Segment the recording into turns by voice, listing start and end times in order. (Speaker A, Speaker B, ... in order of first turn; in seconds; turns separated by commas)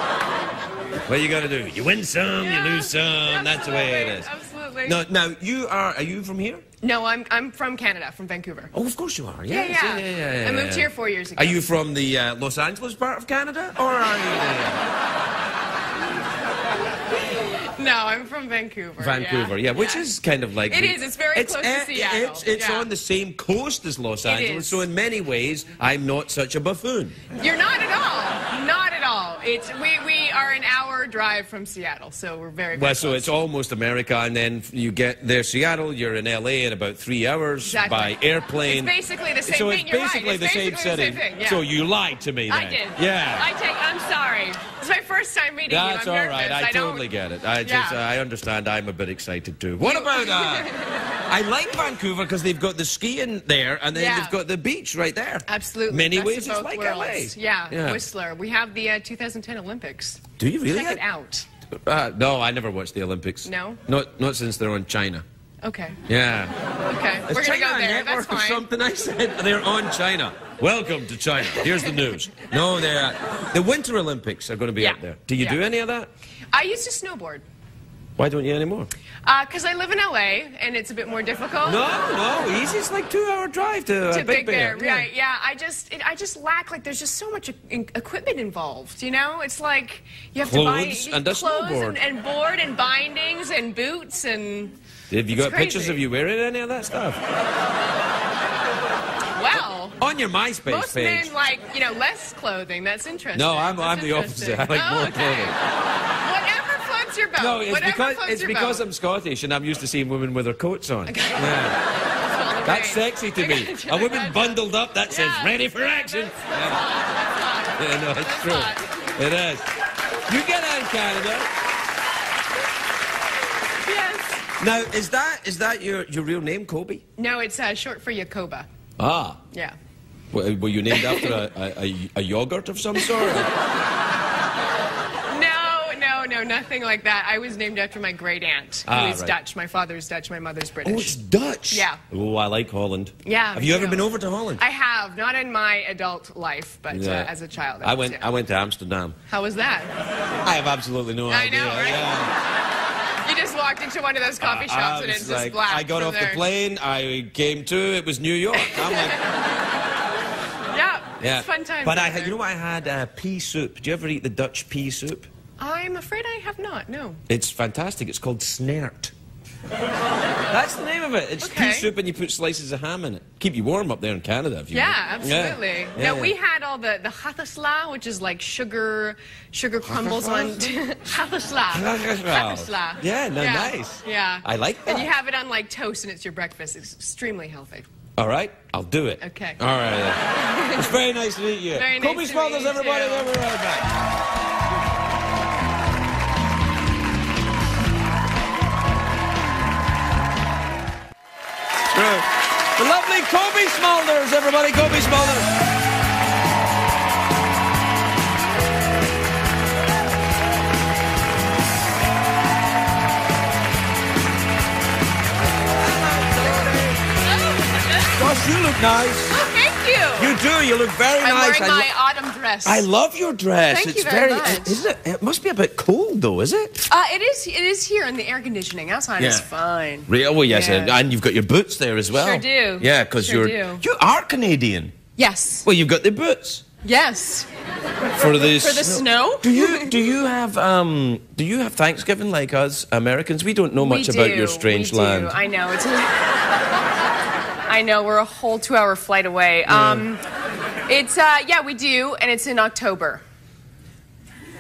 Speaker A: 1.0-4.3, Speaker B: 2.4-5.0, Speaker A: 4.8-6.6, Speaker B: 6.8-8.7, Speaker A: 8.7-14.8, Speaker B: 9.5-11.7, Speaker B: 17.3-20.1, Speaker A: 19.0-27.2, Speaker B: 20.7-22.9, Speaker B: 24.2-24.9, Speaker B: 27.3-33.4, Speaker A: 32.7-43.5, Speaker B: 37.6-41.7, Speaker B: 42.5-47.1, Speaker A: 45.7-50.7, Speaker B: 47.6-48.0, Speaker B: 49.8-51.1, Speaker A: 51.3-58.0, Speaker B: 53.9-54.4, Speaker B: 55.5-61.5, Speaker A: 60.4-61.0, Speaker A: 61.8-65.2, Speaker B: 63.4-63.8, Speaker B: 65.6-66.0, Speaker A: 66.1-66.5, Speaker B: 66.8-68.7, Speaker A: 67.3-76.1, Speaker B: 71.4-72.5, Speaker B: 74.8-75.6, Speaker B: 76.5-77.5, Speaker A: 78.2-78.9, Speaker B: 79.2-81.9, Speaker A: 81.6-85.1, Speaker B: 84.1-94.8, Speaker A: 90.4-92.0, Speaker A: 95.1-97.2, Speaker B: 95.3-96.0, Speaker B: 99.3-100.0, Speaker A: 99.5-101.3, Speaker B: 100.7-105.6, Speaker A: 103.3-105.5, Speaker B: 106.2-108.8, Speaker A: 107.4-111.8, Speaker B: 111.1-119.1, Speaker A: 112.7-116.9, Speaker A: 117.8-119.7, Speaker A: 120.3-121.5, Speaker B: 123.8-124.5, Speaker A: 124.6-127.0, Speaker B: 127.2-128.7, Speaker A: 129.0-129.4, Speaker A: 130.3-133.5, Speaker B: 130.9-131.4, Speaker B: 133.0-133.5, Speaker B: 135.3-141.2, Speaker A: 138.9-139.4, Speaker A: 140.8-144.6, Speaker B: 141.7-142.0, Speaker B: 143.2-148.3, Speaker A: 146.9-149.2, Speaker B: 149.3-149.9, Speaker A: 150.4-152.3, Speaker B: 151.3-152.3, Speaker B: 153.2-156.4, Speaker A: 154.4-159.2, Speaker B: 158.6-159.3, Speaker B: 160.7-162.4, Speaker A: 161.2-165.3, Speaker B: 165.6-167.2, Speaker A: 167.3-169.1, Speaker A: 170.5-176.3, Speaker B: 171.4-171.9, Speaker B: 174.7-187.9, Speaker A: 179.8-180.8, Speaker A: 181.7-185.1, Speaker A: 188.2-193.9, Speaker B: 189.2-189.6, Speaker B: 190.2-191.0, Speaker B: 191.7-193.3, Speaker A: 201.9-205.5, Speaker A: 215.8-217.1, Speaker B: 217.2-218.4, Speaker A: 218.1-219.3, Speaker B: 219.3-220.4, Speaker A: 220.2-221.9, Speaker B: 221.2-222.9, Speaker A: 222.7-226.9, Speaker B: 223.7-224.8, Speaker B: 226.9-231.0, Speaker A: 229.2-229.5, Speaker A: 230.1-234.9, Speaker B: 232.1-233.8, Speaker B: 235.2-235.7, Speaker A: 235.7-236.6, Speaker B: 236.8-237.5, Speaker B: 238.1-240.0, Speaker A: 238.2-245.4, Speaker B: 243.8-246.4, Speaker B: 247.7-250.2, Speaker A: 249.7-250.1, Speaker B: 250.9-253.2